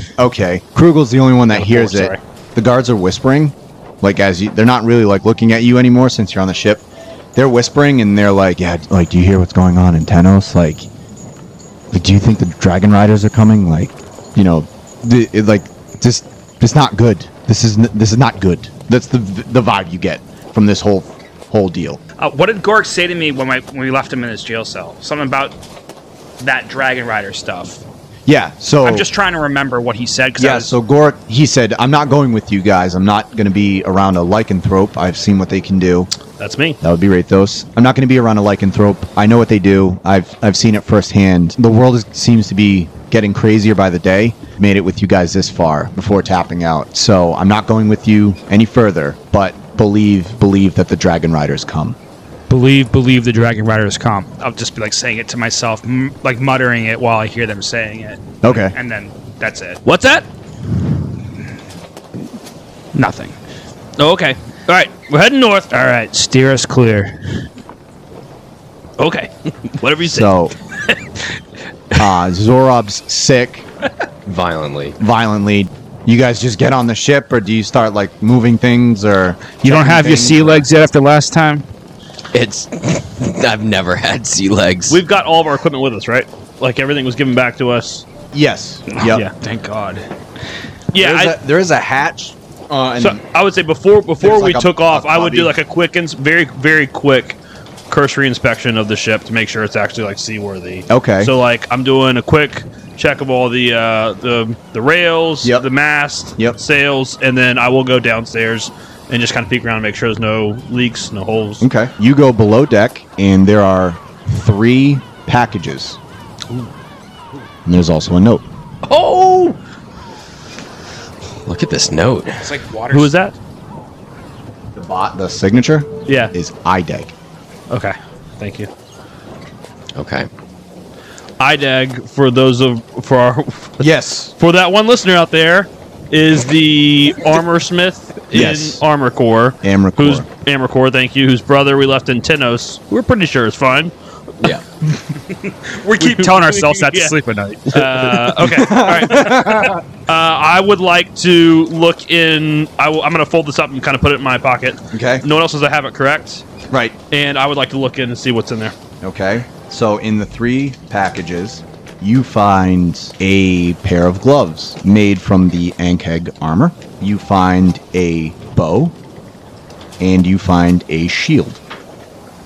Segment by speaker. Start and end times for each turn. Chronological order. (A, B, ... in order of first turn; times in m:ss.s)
0:00.2-0:06.8 A
0:01.5-0:02.2 B
0:07.3-0:10.9 A
0:11.9-0:22.0 A
0:22.2-0:25.6 C
0:26.4-0:27.8 C
0:28.2-0:29.1 A
0:28.8-0:30.7 C
0:30.4-0:36.1 A
0:36.4-0:36.8 B
0:36.8-0:52.0 A
0:52.5-0:59.8 C
0:58.4-0:58.7 A
0:59.8-1:00.2 B
1:02.9-1:03.3 C
1:04.0-1:06.0 B
1:05.7-1:07.2 C
1:09.0-1:10.3 B
1:10.0-1:10.5 A
1:11.9-1:13.6 A
1:14.2-1:15.0 D
1:15.0-1:20.7 A
1:19.6-1:21.6 C
1:22.3-1:25.0 D
1:24.9-1:28.0 B
1:28.3-1:29.2 A
1:28.9-1:30.1 C
1:30.9-1:31.4 B
1:30.9-1:33.2 A
1:33.0-1:37.4 B
1:34.2-1:35.6 A
1:37.9-1:51.6 B
1:40.9-1:41.3 A
1:51.6-1:56.0 A
1:57.6-1:58.4 A
1:58.8-1:59.6 B
2:01.4-2:02.5 D
2:02.4-2:03.1 C
2:02.9-2:03.3 B
2:04.7-2:07.1 A
2:06.1-2:06.3 B
2:07.7-2:08.7 B
2:09.9-2:10.3 D
2:11.4-2:23.9 B
2:13.8-2:14.3 A
2:18.3-2:18.8 A
2:19.6-2:20.2 A
2:25.1-2:28.0 C
2:26.0-2:36.4 B
2:28.4-2:29.8 A
2:34.9-2:35.2 A
2:36.7-2:37.0 A
2:37.1-2:38.7 B
2:39.0-2:48.9 A
2:50.0-2:51.6 A